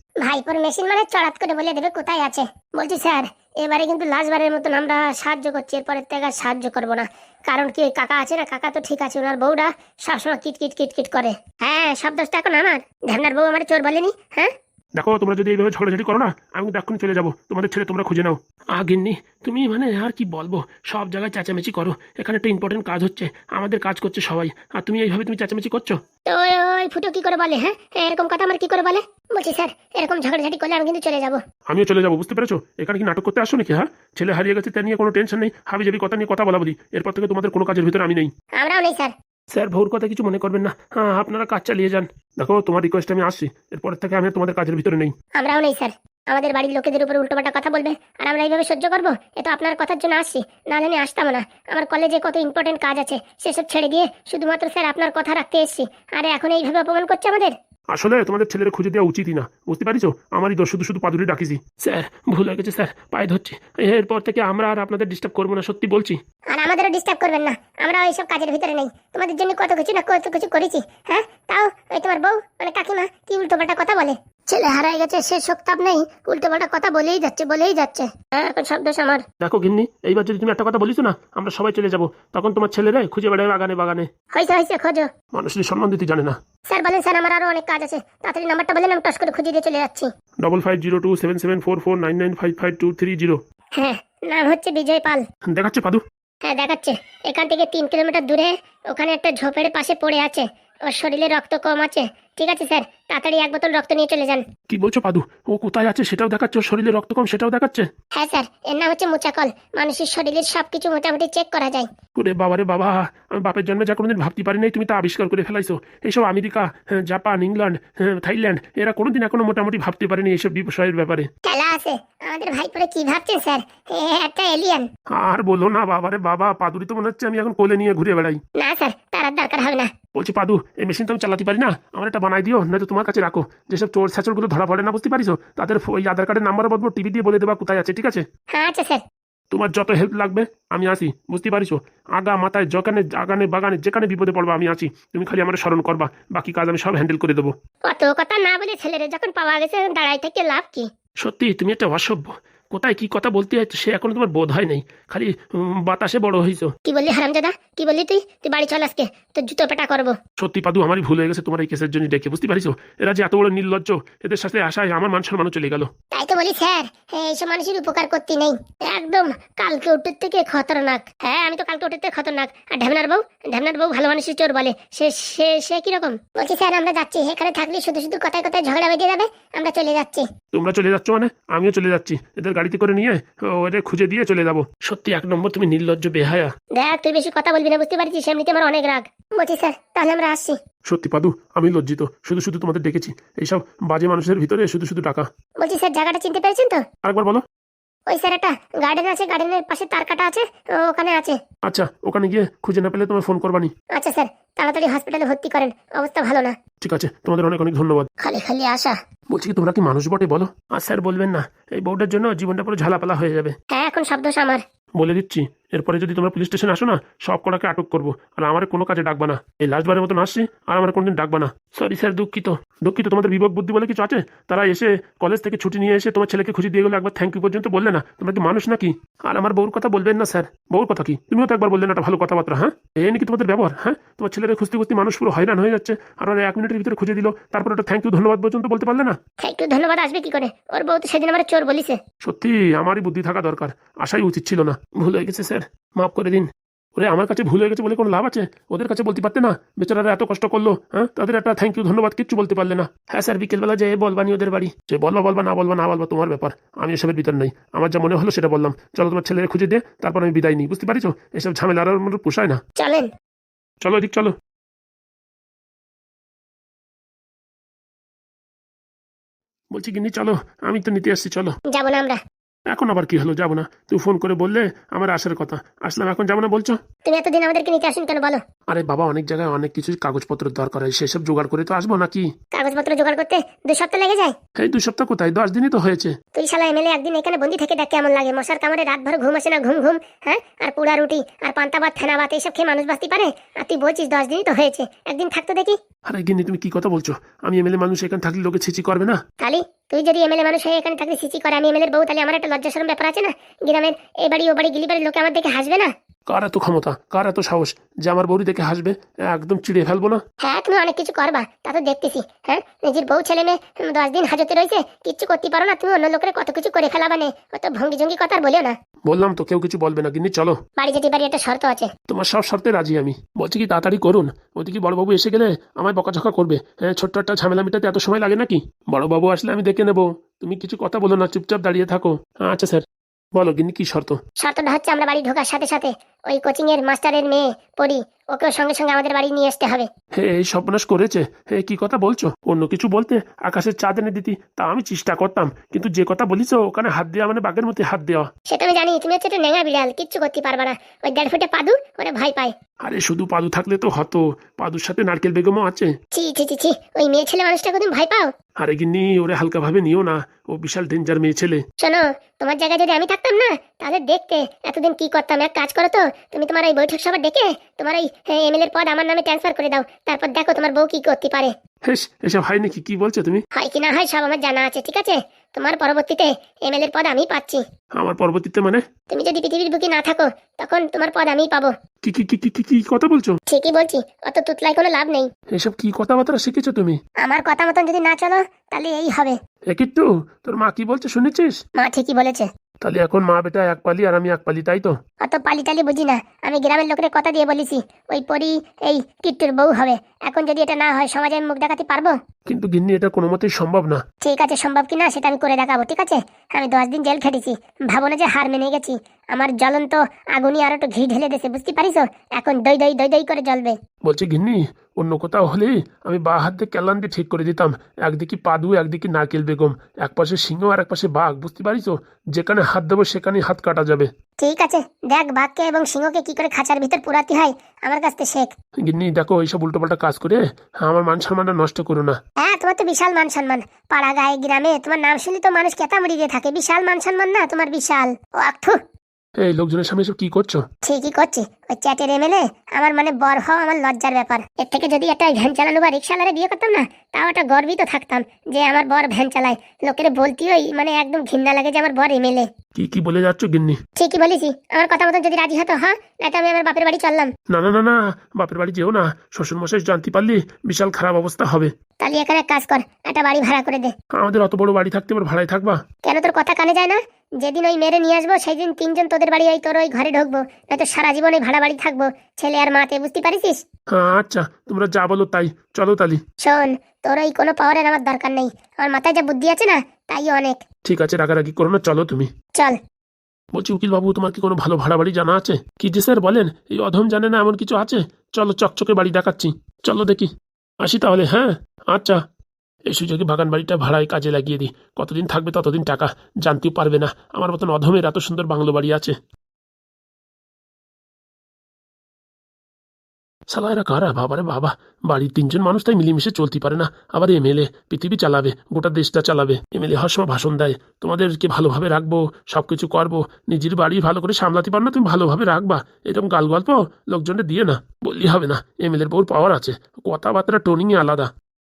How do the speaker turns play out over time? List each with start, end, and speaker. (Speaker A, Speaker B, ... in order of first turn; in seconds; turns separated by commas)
Speaker A: 0.2-14.5, Speaker B: 15.0-26.0, Speaker A: 26.3-31.4, Speaker B: 31.7-38.3, Speaker A: 38.6-39.1, Speaker B: 39.5-45.1, Speaker A: 45.4-57.5, Speaker B: 57.9-66.2, Speaker A: 66.5-79.2, Speaker B: 79.4-84.1, Speaker A: 84.3-85.1, Speaker B: 85.3-86.4, Speaker A: 86.7-90.1, Speaker B: 90.4-93.4, Speaker A: 93.8-95.2, Speaker B: 95.5-96.0, Speaker A: 96.4-104.4, Speaker B: 104.7-107.9, Speaker A: 108.2-111.9, Speaker B: 112.2-121.3, Speaker A: 121.5-124.9, Speaker B: 125.1-128.4, Speaker A: 128.6-129.9, Speaker B: 130.1-138.2, Speaker A: 138.5-139.0, Speaker B: 139.5-147.5, Speaker A: 147.9-150.9, Speaker B: 151.2-156.7, Speaker A: 156.9-160.1, Speaker B: 160.4-165.9, Speaker A: 166.1-180.2, Speaker B: 180.5-186.5, Speaker A: 186.8-190.6, Speaker B: 190.9-195.2, Speaker A: 195.6-196.8, Speaker B: 197.0-197.4, Speaker A: 198.1-201.4, Speaker B: 201.7-203.7, Speaker A: 203.9-206.5, Speaker B: 206.8-208.1, Speaker A: 208.2-208.9, Speaker B: 209.3-213.5, Speaker A: 213.7-214.6, Speaker B: 215.0-239.2, Speaker A: 239.4-242.0, Speaker B: 242.2-262.6, Speaker A: 262.8-263.1, Speaker B: 263.8-264.3, Speaker B: 269.7-271.6, Speaker A: 271.7-272.2, Speaker B: 272.7-276.8, Speaker A: 277.1-278.4, Speaker B: 278.7-282.3, Speaker A: 282.5-284.4, Speaker B: 284.6-286.1, Speaker A: 286.4-295.8, Speaker B: 296.1-299.2, Speaker A: 299.4-305.9, Speaker B: 306.3-310.2, Speaker A: 310.4-318.8, Speaker B: 319.1-320.6, Speaker A: 320.8-321.9, Speaker B: 322.1-332.8, Speaker B: 333.4-334.2, Speaker A: 334.4-339.9, Speaker B: 340.2-348.3, Speaker A: 348.5-352.5, Speaker B: 352.8-355.9, Speaker A: 356.1-358.3, Speaker B: 358.6-361.6, Speaker A: 361.8-371.5, Speaker B: 371.9-373.4, Speaker A: 373.6-377.6, Speaker B: 378.0-378.8, Speaker A: 379.1-381.7, Speaker B: 382.0-383.4, Speaker A: 383.5-385.3, Speaker B: 385.5-387.0, Speaker A: 387.2-389.4, Speaker B: 389.7-391.6, Speaker A: 391.8-392.5, Speaker B: 392.8-394.9, Speaker A: 395.2-402.2, Speaker B: 402.5-404.0, Speaker A: 404.2-413.8, Speaker B: 414.0-424.1, Speaker A: 424.4-428.5, Speaker B: 428.8-432.2, Speaker A: 432.4-438.8, Speaker B: 439.4-440.6, Speaker A: 440.8-452.5, Speaker B: 452.8-453.8, Speaker A: 454.0-457.3, Speaker B: 457.5-461.7, Speaker A: 462.0-463.9, Speaker B: 464.1-465.8, Speaker A: 466.1-473.6, Speaker B: 473.9-476.2, Speaker A: 476.4-480.6, Speaker B: 480.8-482.3, Speaker B: 483.5-490.3, Speaker B: 490.8-492.2, Speaker B: 492.9-499.1, Speaker B: 503.5-521.3